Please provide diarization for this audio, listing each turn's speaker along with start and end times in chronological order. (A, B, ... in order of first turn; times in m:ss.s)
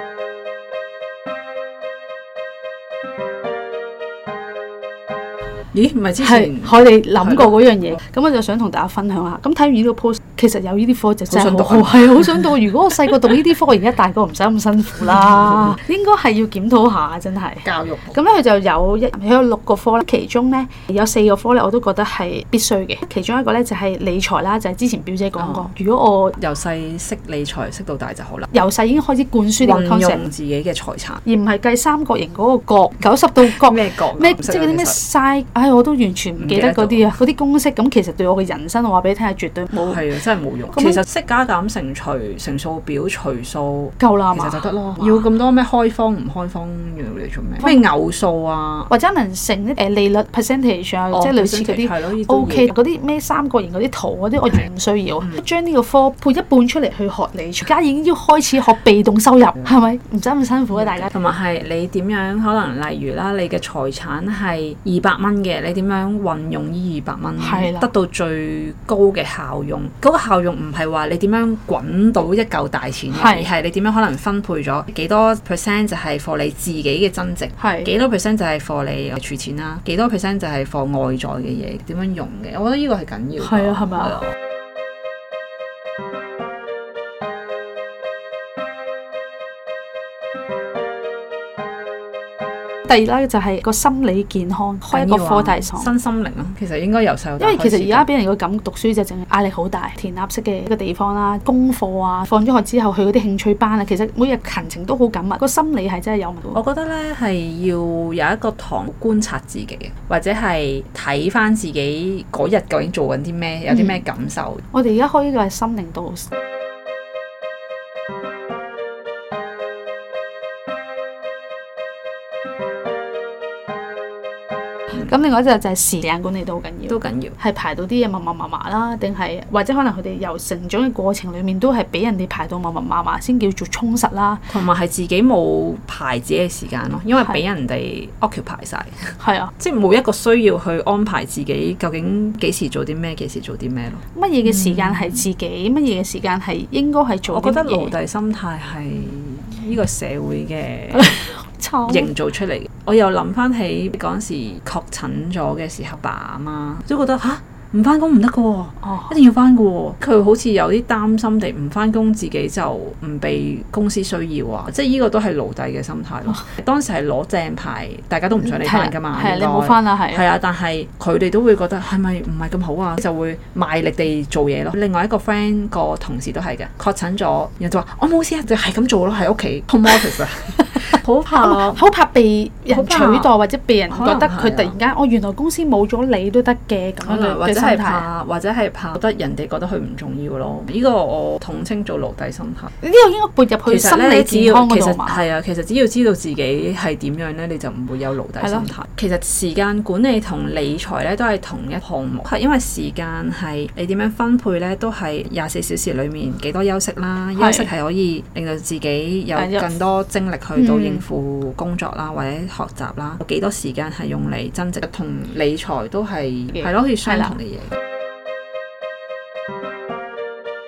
0:05.7-0:07.9 A
0:06.2-0:26.4 B
0:11.3-0:12.6 A
0:15.1-0:15.8 A
0:17.6-0:18.2 A
0:25.4-0:25.7 A
0:26.4-0:28.6 A
0:28.5-0:30.2 B
0:29.6-0:31.2 A
0:31.2-0:40.0 B
0:33.4-0:35.0 A
0:36.4-0:37.1 A
0:39.8-0:48.9 A
0:40.7-0:41.0 B
0:44.0-0:45.2 B
0:48.9-1:01.1 B
0:51.1-0:52.7 A
1:00.7-1:24.2 A
1:07.4-1:07.9 B
1:13.1-1:13.5 B
1:17.6-1:17.9 B
1:23.4-1:24.2 B
1:32.9-1:35.9 B
1:34.9-1:38.0 A
1:37.4-1:46.6 B
1:46.5-1:54.6 A
1:53.7-1:54.0 B
1:54.7-1:56.3 B
2:05.0-2:14.4 B
2:06.9-2:07.4 A
2:14.5-2:25.2 A
2:19.2-2:19.5 B
2:24.1-2:27.9 B
2:27.3-3:01.8 A
2:31.0-2:32.1 B
2:38.8-2:39.1 B
2:48.4-2:50.2 B
3:01.4-3:08.0 B
3:02.7-3:03.3 A
3:03.9-3:04.7 A
3:07.0-3:12.7 A
3:12.8-3:15.2 B
3:13.7-3:37.7 A
3:18.4-3:18.7 B
3:27.4-3:27.7 B
3:29.3-3:29.7 B
3:30.6-3:31.0 B
3:36.6-3:37.3 B